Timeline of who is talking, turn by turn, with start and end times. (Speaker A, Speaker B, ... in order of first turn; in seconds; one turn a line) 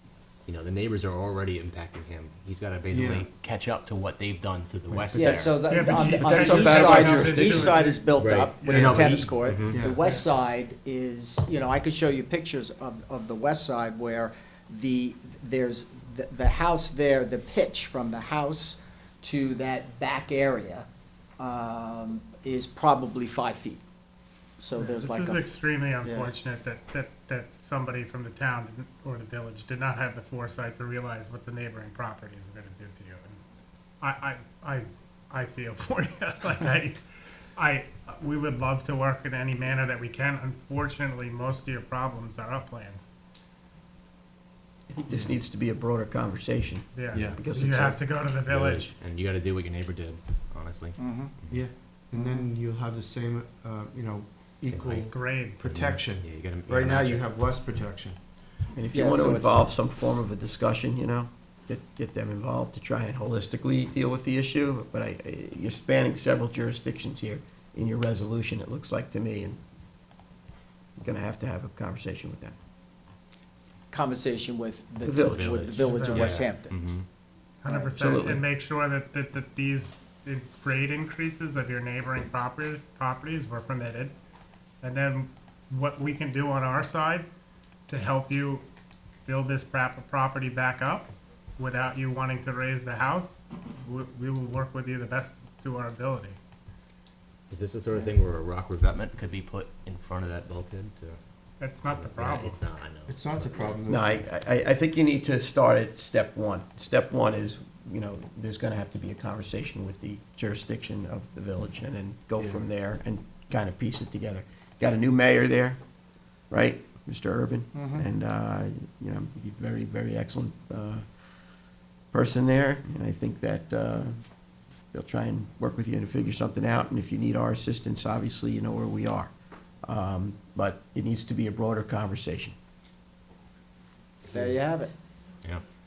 Speaker A: 0.5-5.6
Speaker B: 2.9-3.3
Speaker C: 5.1-7.8
Speaker D: 5.1-20.9
Speaker E: 5.7-8.1
Speaker A: 8.1-9.8
Speaker B: 8.7-9.1
Speaker B: 9.7-10.0
Speaker D: 21.4-23.8
Speaker D: 24.6-25.5
Speaker E: 24.8-33.4
Speaker D: 26.0-26.3
Speaker E: 34.0-37.0
Speaker E: 37.5-43.0
Speaker C: 44.9-48.0
Speaker E: 46.9-48.9
Speaker B: 47.1-47.4
Speaker A: 48.4-51.6
Speaker D: 51.0-51.3
Speaker B: 51.5-58.2
Speaker D: 52.2-52.4
Speaker A: 54.7-55.1
Speaker E: 55.1-55.6
Speaker A: 55.6-57.2
Speaker C: 58.7-69.6
Speaker D: 58.9-59.7
Speaker C: 71.0-72.5
Speaker D: 73.9-76.7
Speaker C: 75.0-75.7
Speaker A: 75.2-77.0
Speaker E: 76.0-76.3
Speaker E: 77.6-84.1
Speaker C: 77.8-78.4
Speaker E: 84.8-87.2
Speaker E: 87.9-88.6
Speaker E: 89.2-96.4
Speaker A: 97.5-101.2
Speaker E: 101.6-102.6
Speaker A: 101.8-103.8
Speaker B: 103.1-104.2
Speaker C: 103.9-115.8
Speaker B: 112.4-112.6
Speaker C: 116.5-121.0
Speaker D: 117.7-118.0
Speaker C: 122.1-124.2
Speaker C: 124.9-129.3
Speaker C: 129.8-132.5
Speaker D: 134.3-134.9